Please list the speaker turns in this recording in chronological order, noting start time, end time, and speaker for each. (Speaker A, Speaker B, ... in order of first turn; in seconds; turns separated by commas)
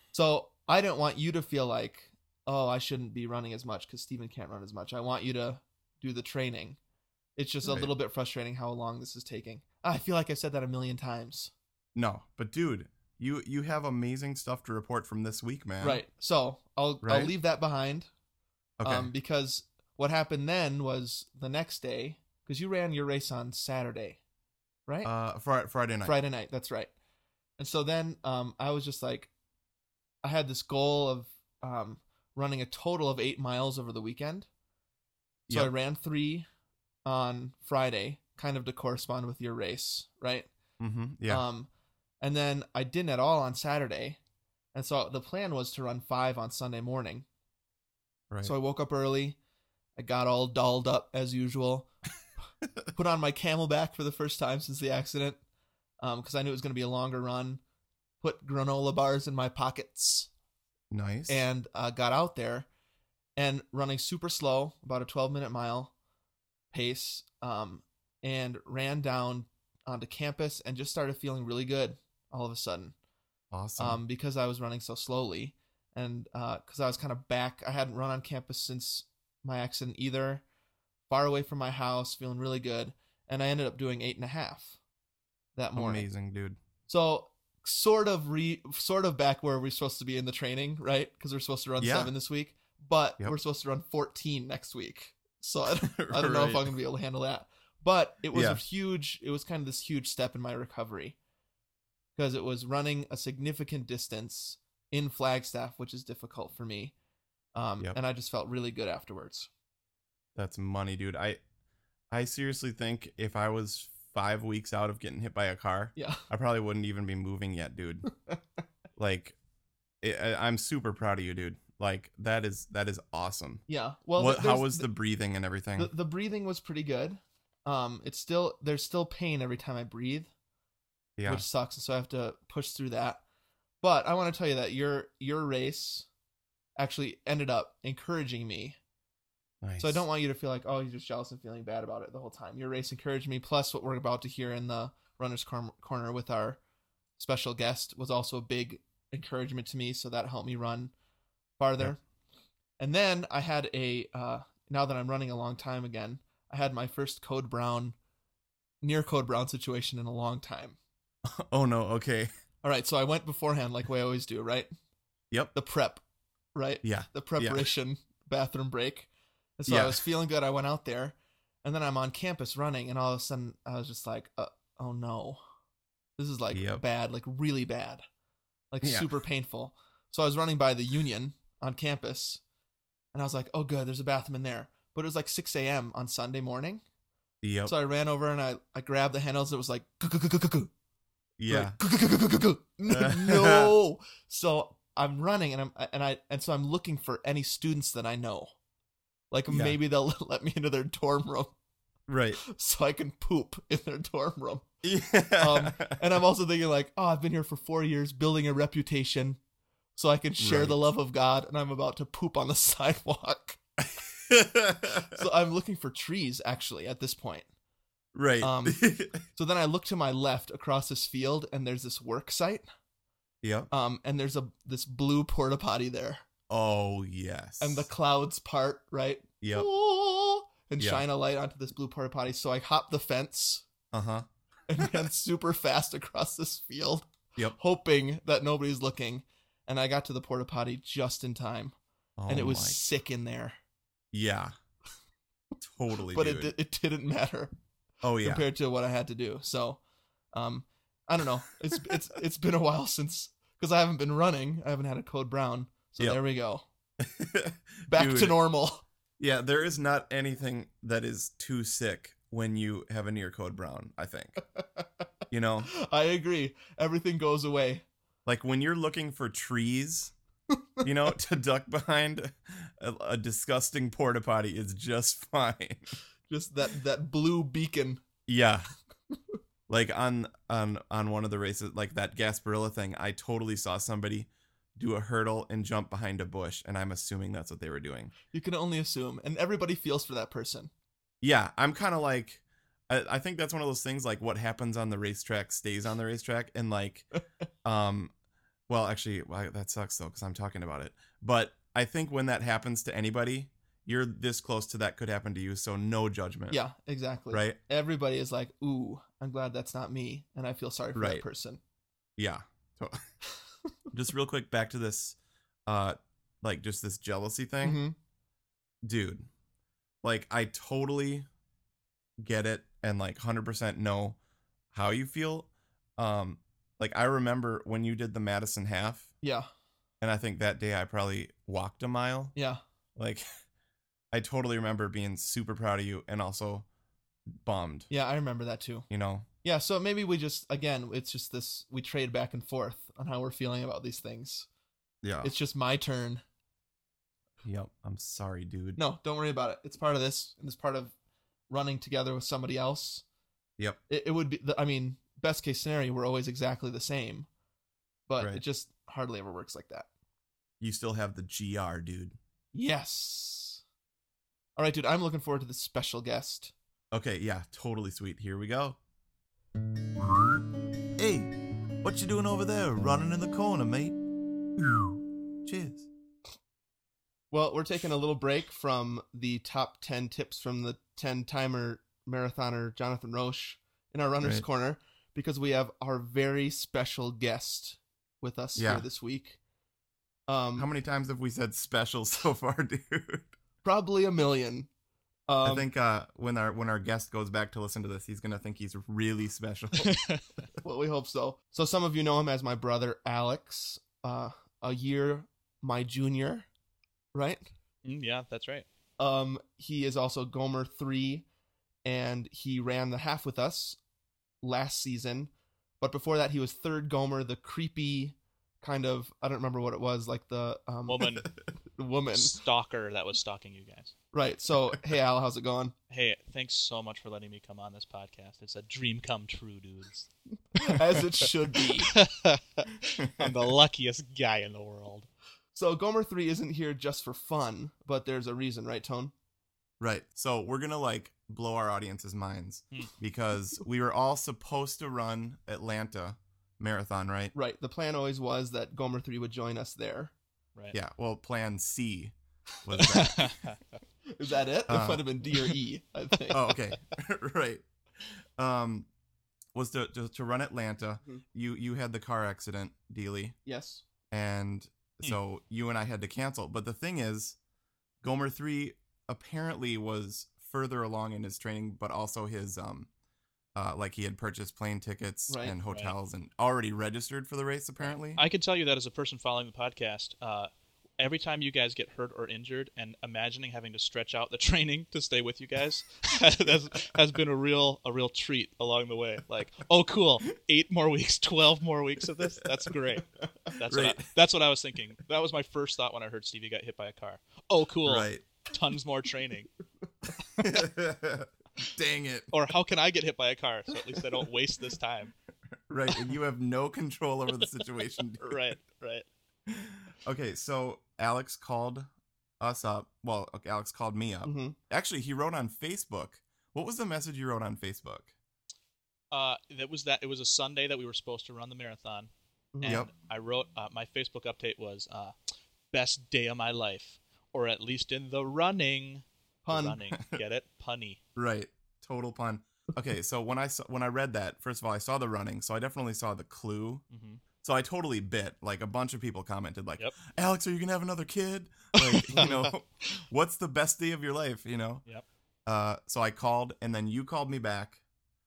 Speaker A: 0.1-6.8, Speaker A: 7.3-11.5, Speaker B: 7.6-7.9, Speaker B: 11.9-16.0, Speaker A: 15.8-18.1, Speaker B: 17.0-17.3, Speaker B: 18.8-19.1, Speaker A: 18.8-24.2, Speaker B: 25.0-26.2, Speaker A: 26.0-26.9, Speaker A: 27.6-29.3, Speaker A: 30.2-34.5, Speaker A: 35.5-36.5, Speaker A: 37.0-40.5, Speaker B: 40.8-41.4, Speaker A: 41.3-41.7, Speaker A: 42.2-44.2, Speaker A: 44.7-47.2, Speaker A: 48.4-49.4, Speaker A: 50.0-51.9, Speaker A: 52.9-55.4, Speaker A: 56.0-57.6, Speaker A: 58.2-60.3, Speaker B: 60.9-61.4, Speaker A: 61.3-62.7, Speaker A: 63.4-65.9, Speaker A: 66.7-72.9, Speaker B: 73.5-74.0, Speaker A: 73.8-80.4, Speaker A: 81.1-84.8, Speaker A: 85.5-86.0, Speaker B: 85.7-86.6, Speaker A: 86.9-101.2, Speaker B: 91.8-92.1, Speaker B: 95.8-96.7, Speaker B: 98.3-98.6, Speaker A: 102.2-106.9, Speaker A: 107.5-109.5, Speaker B: 110.3-111.4, Speaker B: 112.1-118.0, Speaker A: 116.0-116.2, Speaker B: 119.0-119.3, Speaker B: 120.0-123.6, Speaker A: 123.7-124.9, Speaker B: 124.2-125.9, Speaker A: 125.8-130.3, Speaker B: 131.2-131.4, Speaker A: 131.2-133.2, Speaker A: 133.8-136.1, Speaker A: 136.8-138.8, Speaker B: 139.6-140.0, Speaker A: 139.8-146.6, Speaker A: 147.2-150.9, Speaker A: 151.6-152.0, Speaker A: 152.8-157.9, Speaker A: 158.8-160.8, Speaker B: 161.2-162.3, Speaker A: 162.6-164.7, Speaker A: 165.5-166.0, Speaker A: 166.5-175.4, Speaker B: 166.8-167.7, Speaker B: 169.7-170.0, Speaker A: 176.2-178.0, Speaker B: 176.5-176.8, Speaker A: 178.7-182.4, Speaker B: 178.8-179.1, Speaker A: 183.1-186.8, Speaker B: 187.4-187.7, Speaker A: 187.7-190.7, Speaker B: 191.4-191.8, Speaker A: 191.5-198.5, Speaker B: 192.9-193.7, Speaker A: 199.3-201.5, Speaker B: 199.5-199.8, Speaker B: 202.1-202.4, Speaker A: 202.4-204.6, Speaker B: 204.8-205.9, Speaker A: 205.4-209.4, Speaker A: 209.9-213.6, Speaker B: 210.4-210.8, Speaker B: 213.8-215.1, Speaker A: 215.1-217.5, Speaker B: 218.1-219.2, Speaker A: 218.4-222.7, Speaker B: 223.4-223.7, Speaker A: 223.7-226.2, Speaker B: 226.5-227.9, Speaker A: 227.6-233.7, Speaker B: 229.4-229.7, Speaker B: 230.8-231.0, Speaker B: 233.9-234.2, Speaker A: 234.7-241.7, Speaker B: 234.8-235.1, Speaker B: 242.2-242.8, Speaker A: 242.3-243.6, Speaker B: 244.1-244.5, Speaker B: 245.6-246.5, Speaker A: 246.1-247.5, Speaker B: 248.0-248.4, Speaker A: 248.2-249.8, Speaker A: 250.3-256.6, Speaker B: 257.0-258.4, Speaker A: 257.9-258.8, Speaker B: 259.2-264.4, Speaker A: 264.6-264.8, Speaker B: 265.3-265.7, Speaker A: 265.6-267.8, Speaker B: 268.2-270.1, Speaker B: 270.8-275.9, Speaker A: 276.3-278.0, Speaker B: 278.3-278.7, Speaker B: 279.7-288.1, Speaker A: 288.3-290.7, Speaker B: 291.2-297.1, Speaker B: 297.6-298.1, Speaker B: 298.7-306.6, Speaker A: 306.5-311.6, Speaker B: 307.3-307.6, Speaker B: 310.9-311.2, Speaker B: 312.2-313.0, Speaker B: 313.9-315.1, Speaker B: 315.7-317.8, Speaker A: 317.6-317.9, Speaker B: 318.8-319.3, Speaker B: 320.0-321.3, Speaker B: 322.2-324.2, Speaker B: 324.7-329.1, Speaker A: 329.2-329.5, Speaker B: 330.0-332.3, Speaker A: 332.3-332.6, Speaker B: 332.9-333.2, Speaker B: 334.1-336.6, Speaker B: 337.4-337.9, Speaker A: 337.9-338.9, Speaker B: 338.9-339.2, Speaker A: 339.4-344.5, Speaker B: 345.0-345.3, Speaker A: 345.2-346.2, Speaker B: 347.4-348.8, Speaker A: 348.8-350.9, Speaker A: 351.5-353.0, Speaker A: 353.9-357.3, Speaker A: 358.1-359.9, Speaker B: 360.6-362.2, Speaker A: 362.5-363.6, Speaker A: 364.6-366.5, Speaker B: 366.9-368.8, Speaker B: 370.0-370.4, Speaker B: 370.9-374.0, Speaker B: 374.6-375.9, Speaker A: 377.3-389.4, Speaker B: 388.6-388.9, Speaker A: 390.3-390.7, Speaker B: 390.6-393.3, Speaker A: 393.6-394.7, Speaker A: 395.3-395.7, Speaker B: 395.4-400.1, Speaker C: 399.8-400.3, Speaker A: 400.6-406.5, Speaker A: 407.1-407.5, Speaker C: 407.8-408.6, Speaker A: 409.0-411.2, Speaker A: 411.8-413.8, Speaker A: 414.4-421.2, Speaker C: 420.9-421.3, Speaker A: 421.7-422.4, Speaker C: 422.1-423.9, Speaker A: 424.1-425.7, Speaker C: 425.9-430.1, Speaker A: 430.5-431.9, Speaker C: 431.8-435.1, Speaker B: 433.0-433.3, Speaker A: 435.5-439.1, Speaker B: 439.8-447.3, Speaker A: 447.3-450.1, Speaker B: 450.7-453.4, Speaker C: 452.8-453.6, Speaker A: 454.1-456.5, Speaker B: 454.7-455.1, Speaker B: 456.3-457.6, Speaker B: 458.4-458.9, Speaker B: 459.5-463.3, Speaker A: 463.4-463.8, Speaker B: 464.1-467.4, Speaker B: 468.0-472.9, Speaker B: 473.6-478.2, Speaker A: 475.3-475.6, Speaker C: 475.7-475.9, Speaker C: 478.1-499.5, Speaker B: 493.6-494.1, Speaker B: 497.8-498.2, Speaker B: 500.4-502.3, Speaker C: 502.3-505.1, Speaker B: 505.7-508.4, Speaker C: 508.2-509.1, Speaker B: 509.5-511.9, Speaker B: 512.4-518.1, Speaker A: 514.2-514.5, Speaker C: 519.1-522.1, Speaker A: 522.5-522.9, Speaker C: 522.6-525.1, Speaker C: 525.7-531.0, Speaker A: 529.4-529.8, Speaker B: 529.9-530.2, Speaker B: 531.1-536.8, Speaker C: 536.9-537.2, Speaker B: 537.4-544.8, Speaker A: 542.1-542.4, Speaker B: 545.5-547.8